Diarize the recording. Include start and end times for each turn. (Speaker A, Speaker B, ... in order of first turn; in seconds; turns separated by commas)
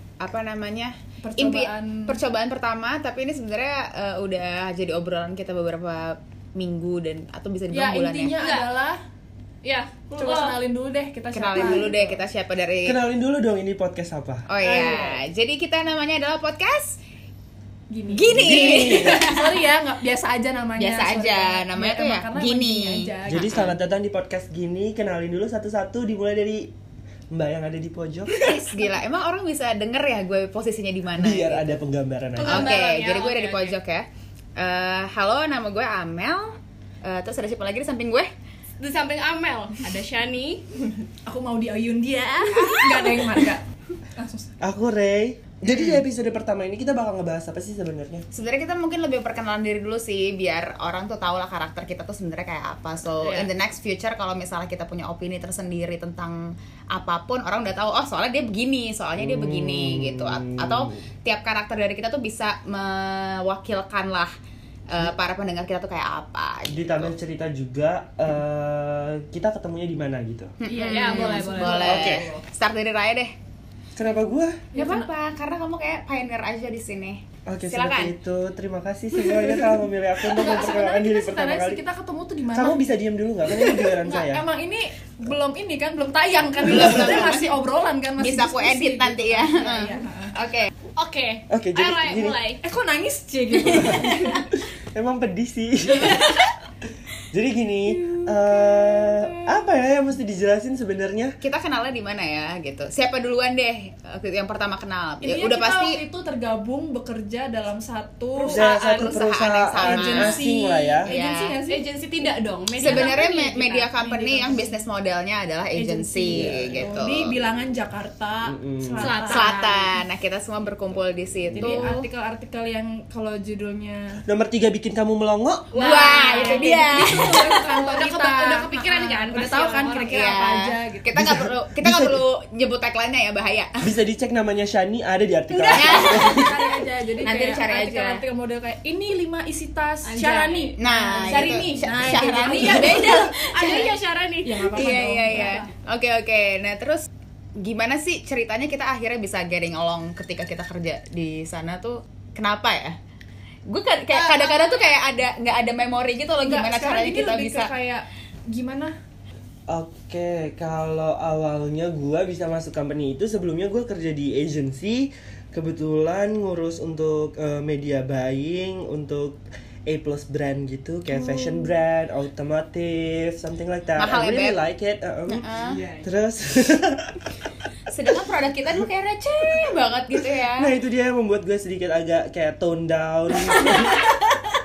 Speaker A: 0.2-8.3, Speaker B: 1.2-2.2, Speaker B: 7.7-9.0, Speaker C: 8.4-8.7, Speaker C: 9.6-10.6, Speaker B: 10.1-12.1, Speaker A: 11.3-13.0, Speaker D: 12.8-14.5, Speaker A: 14.5-17.0, Speaker B: 14.6-15.2, Speaker B: 17.9-23.7, Speaker A: 18.1-19.6, Speaker D: 18.3-19.3, Speaker A: 20.8-23.7, Speaker D: 23.3-26.7, Speaker D: 27.3-28.5, Speaker A: 28.4-31.7, Speaker D: 31.2-32.8, Speaker C: 32.4-33.8, Speaker A: 32.4-38.3, Speaker C: 38.8-40.8, Speaker B: 41.2-43.6, Speaker A: 42.5-43.5, Speaker B: 44.1-44.5, Speaker D: 44.6-48.2, Speaker A: 45.6-46.0, Speaker A: 48.3-64.3, Speaker C: 53.2-53.5, Speaker D: 59.2-61.0, Speaker A: 64.9-67.1, Speaker D: 66.7-70.5, Speaker A: 70.6-73.3, Speaker B: 70.6-72.4, Speaker C: 70.9-72.1, Speaker D: 71.8-72.2, Speaker D: 74.0-74.7, Speaker B: 74.7-75.1, Speaker A: 74.7-78.1, Speaker D: 77.5-81.8, Speaker B: 80.3-82.8, Speaker D: 82.5-84.4, Speaker B: 83.6-90.3, Speaker A: 86.6-87.5, Speaker A: 88.2-90.7, Speaker C: 91.0-92.6, Speaker D: 91.5-92.4, Speaker B: 92.6-94.5, Speaker D: 93.5-96.3, Speaker D: 97.3-101.3, Speaker B: 97.9-99.6, Speaker A: 101.4-106.0, Speaker B: 105.2-108.6, Speaker C: 108.4-109.2, Speaker D: 108.5-111.1, Speaker A: 108.5-110.4, Speaker B: 109.8-111.8, Speaker A: 111.1-111.6, Speaker C: 111.7-114.8, Speaker A: 112.8-117.3, Speaker B: 112.8-113.2, Speaker B: 115.7-119.9, Speaker D: 116.3-117.1, Speaker D: 118.5-119.1, Speaker C: 119.0-119.8, Speaker A: 119.2-122.0, Speaker D: 121.5-121.9, Speaker B: 121.6-124.2, Speaker D: 124.2-125.8, Speaker C: 125.7-130.2, Speaker B: 125.8-131.2, Speaker A: 125.8-127.5, Speaker A: 130.1-133.8, Speaker D: 131.1-132.2, Speaker D: 133.8-136.5, Speaker B: 135.5-143.9, Speaker C: 135.7-136.2, Speaker A: 135.7-136.5, Speaker A: 137.2-138.2, Speaker C: 140.0-140.8, Speaker A: 140.8-144.0, Speaker C: 142.2-145.7, Speaker B: 144.4-145.6, Speaker A: 144.7-153.0, Speaker A: 153.7-157.7, Speaker C: 154.1-154.9, Speaker B: 156.4-158.9, Speaker D: 159.7-175.4, Speaker A: 173.9-174.6, Speaker A: 175.3-175.8, Speaker C: 175.5-176.1, Speaker D: 176.0-177.4, Speaker A: 177.9-180.7, Speaker D: 180.5-184.1, Speaker C: 183.6-184.2